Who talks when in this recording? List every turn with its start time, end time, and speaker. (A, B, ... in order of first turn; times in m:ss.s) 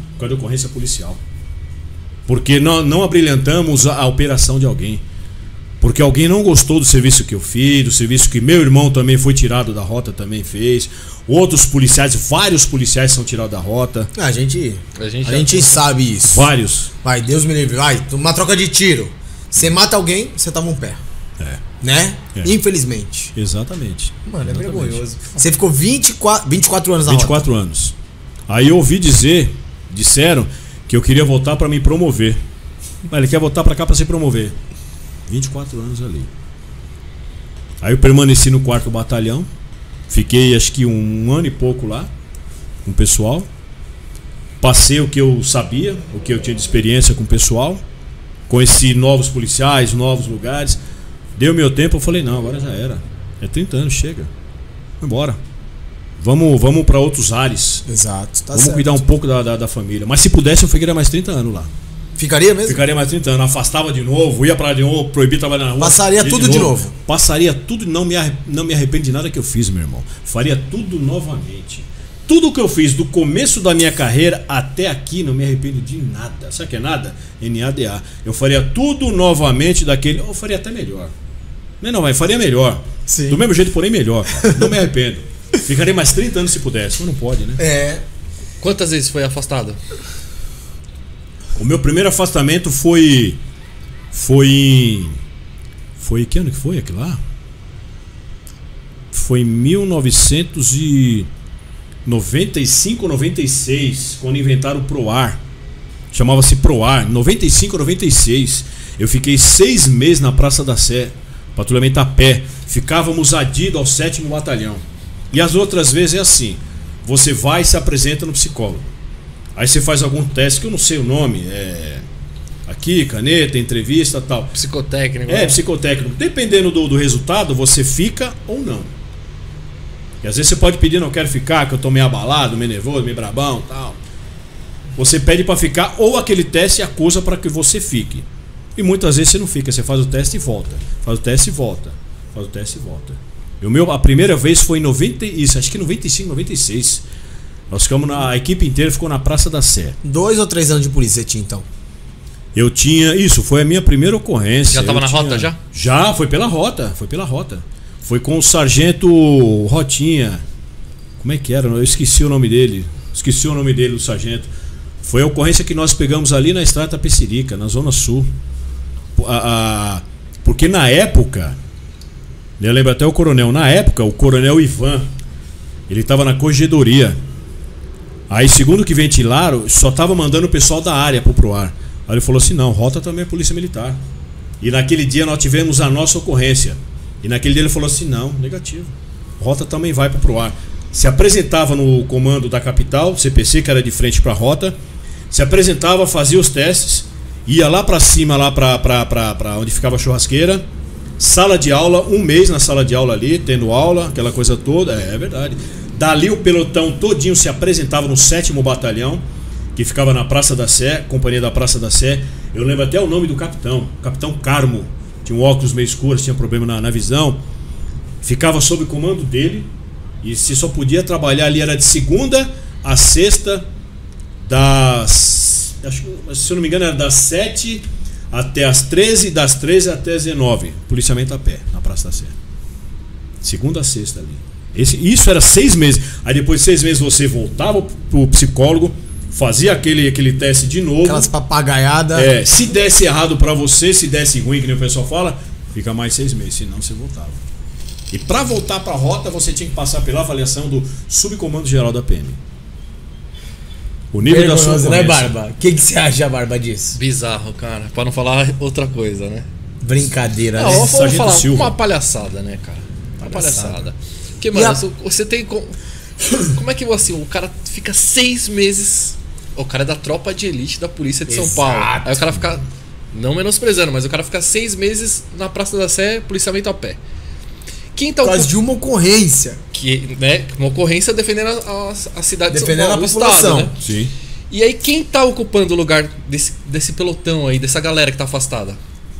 0:00.2-0:01.2 A
0:02.3-0:05.0 A
0:05.8-0:14.1 A
0:14.2-0:16.5 B
0:15.0-0:15.8 C
0:16.2-0:16.9 A
0:17.0-0:21.0 B
0:21.8-0:23.3 B
0:23.3-0:25.0 A
0:24.3-0:27.5 B
0:27.0-0:27.9 A
0:28.5-0:32.4 A
0:33.1-0:34.6 A
0:35.3-0:36.3 A
0:37.8-0:39.5 A
0:40.1-0:42.1 A
0:42.8-0:43.5 A
0:44.6-0:47.8 A
0:48.5-0:50.8 A
0:51.4-0:54.3 A
0:55.0-0:55.4 A
0:56.2-0:57.8 A
0:57.9-0:59.0 B
0:58.5-1:01.7 A
1:02.2-1:02.8 B
1:02.6-1:21.1 A
1:05.8-1:06.9 B
1:21.8-1:27.6 A
1:23.1-1:23.4 B
1:24.4-1:24.7 B
1:27.6-1:28.0 B
1:28.6-1:29.8 C
1:31.6-1:33.4 A
1:34.1-1:35.2 A
1:36.0-1:37.2 A
1:39.1-1:41.3 A
1:42.0-1:45.4 A
1:46.1-1:58.9 A
1:59.6-2:02.0 A
2:02.7-2:04.5 A
2:04.5-2:05.6 C
2:05.3-2:08.9 A
2:10.2-2:14.0 A
2:15.0-2:18.2 A
2:18.8-2:27.0 A
2:27.7-2:30.0 A
2:30.0-2:31.6 B
2:32.5-2:40.4 A
2:34.7-2:35.6 C
2:41.2-2:44.5 A
2:45.0-2:48.3 A
2:49.2-2:51.6 A
2:52.6-2:55.1 A
2:55.9-2:57.2 A
2:58.3-3:04.0 A
3:04.6-3:14.8 A
3:15.3-3:20.6 A
3:21.2-3:29.2 A
3:29.7-3:37.4 A
3:38.2-3:39.7 A
3:40.2-3:43.6 A
3:44.4-3:52.3 A
3:53.4-4:01.3 A
4:01.0-4:02.3 B
4:02.1-4:07.4 A
4:08.1-4:12.4 A
4:14.1-4:15.3 A
4:14.2-4:17.0 B
4:16.9-4:19.5 C
4:19.8-4:20.9 B
4:20.6-4:25.8 C
4:20.6-4:21.8 A
4:23.2-4:23.8 B
4:24.5-4:24.8 B
4:26.4-4:37.0 C
4:31.3-4:32.2 B
4:37.9-4:38.5 C
4:38.2-4:39.6 B
4:39.7-4:43.7 C
4:42.5-4:43.7 B
4:43.8-4:44.1 A
4:44.5-4:48.8 C